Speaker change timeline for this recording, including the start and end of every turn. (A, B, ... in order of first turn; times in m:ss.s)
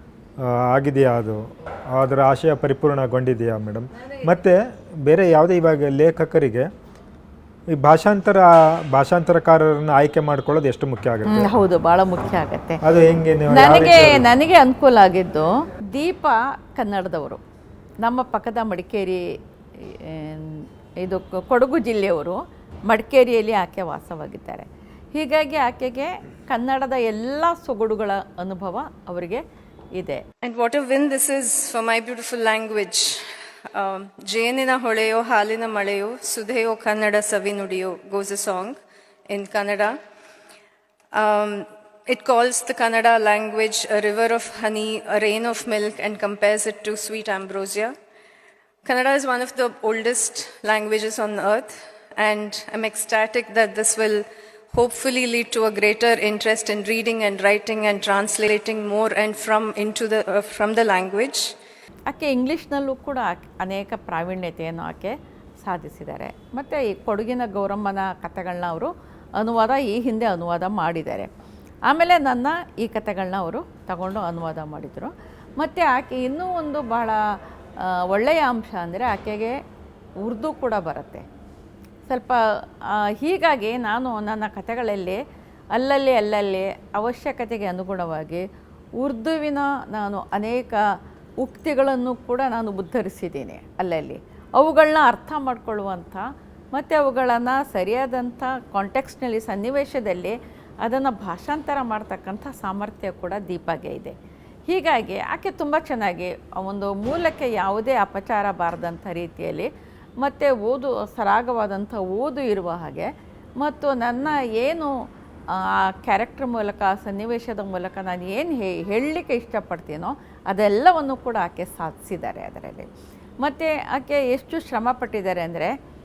0:00.4-0:06.7 A
0:07.7-0:11.6 A
0:11.2-0:12.8 B
0:12.8-0:14.3 A
0:13.5-0:17.4 B
0:18.0-0:19.2 B
0:19.8-0:29.4 B
0:30.0-0:30.2 B
0:30.4-0:38.8 C
0:39.3-0:40.0 C
0:41.1-0:47.9 C
0:48.8-1:01.6 C
1:02.1-1:11.3 B
1:11.9-1:19.6 B
1:20.2-1:21.2 B
1:22.1-1:25.2 B
1:25.7-1:28.5 B
1:29.0-1:44.1 B
1:44.7-1:49.7 B
1:50.2-2:02.9 B
2:03.4-2:05.8 B